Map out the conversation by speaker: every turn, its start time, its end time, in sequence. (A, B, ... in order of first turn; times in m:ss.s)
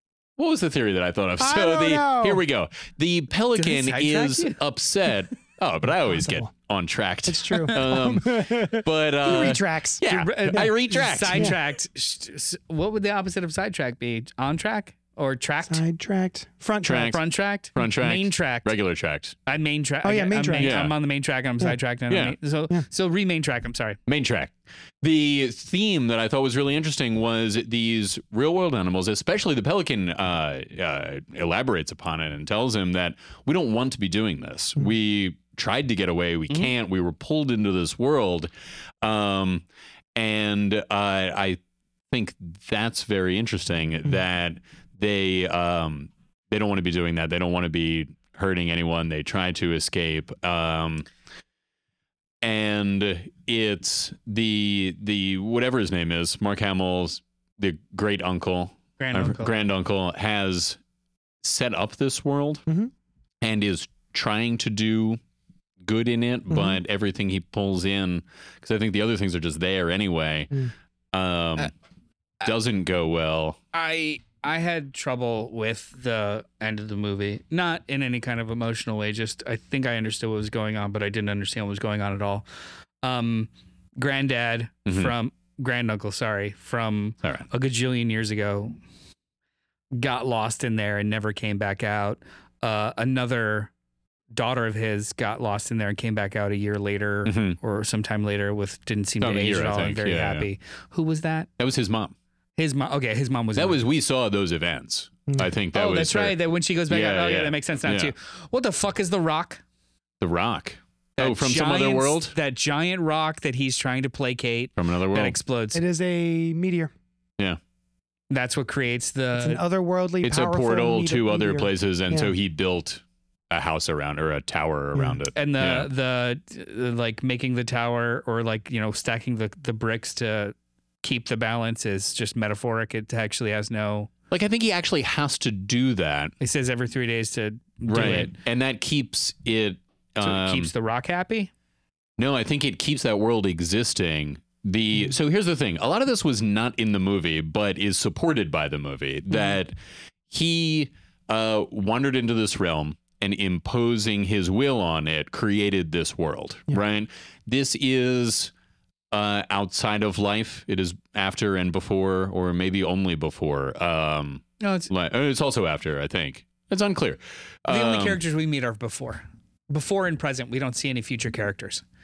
0:00.4-0:11.6 A
0:01.4-0:02.4 B
0:03.6-0:04.6 C
0:06.1-0:06.5 B
0:07.3-0:10.7 B
0:10.1-0:15.8 C
0:15.7-0:17.2 B
0:16.8-0:17.2 A
0:17.0-0:18.7 C
0:17.7-0:19.4 A
0:19.5-0:24.0 C
0:20.0-0:20.8 B
0:20.6-0:20.9 A
0:22.1-0:22.4 A
0:24.1-0:38.5 A
0:39.0-0:41.6 A
0:42.1-0:51.1 A
0:52.4-1:00.8 A
0:59.0-0:59.5 C
1:01.4-1:02.6 A
1:03.4-1:05.2 A
1:05.8-1:10.5 A
1:06.5-1:06.8 B
1:11.1-1:11.7 A
1:12.4-1:13.6 A
1:13.7-1:22.5 C
1:23.0-1:28.8 C
1:24.9-1:25.1 A
1:29.9-1:33.7 C
1:34.3-1:41.5 C
1:37.3-1:37.6 A
1:39.2-1:40.5 A
1:41.6-1:42.2 A
1:42.6-1:43.8 C
1:43.6-1:46.4 A
1:45.7-1:49.6 C
1:46.9-1:48.1 A
1:50.2-1:52.4 A
1:51.2-1:55.8 C
1:54.8-1:55.4 A
1:55.7-1:56.9 B
1:58.3-1:59.6 C
1:59.4-2:02.3 B
2:00.2-2:05.9 A
2:05.4-2:14.1 C
2:14.3-2:16.3 A
2:16.4-2:18.4 C
2:17.9-2:20.7 A
2:20.2-2:21.5 C
2:22.2-2:29.8 A
2:30.3-2:38.5 A
2:39.1-2:48.2 A
2:44.6-2:44.9 C
2:47.7-2:51.8 C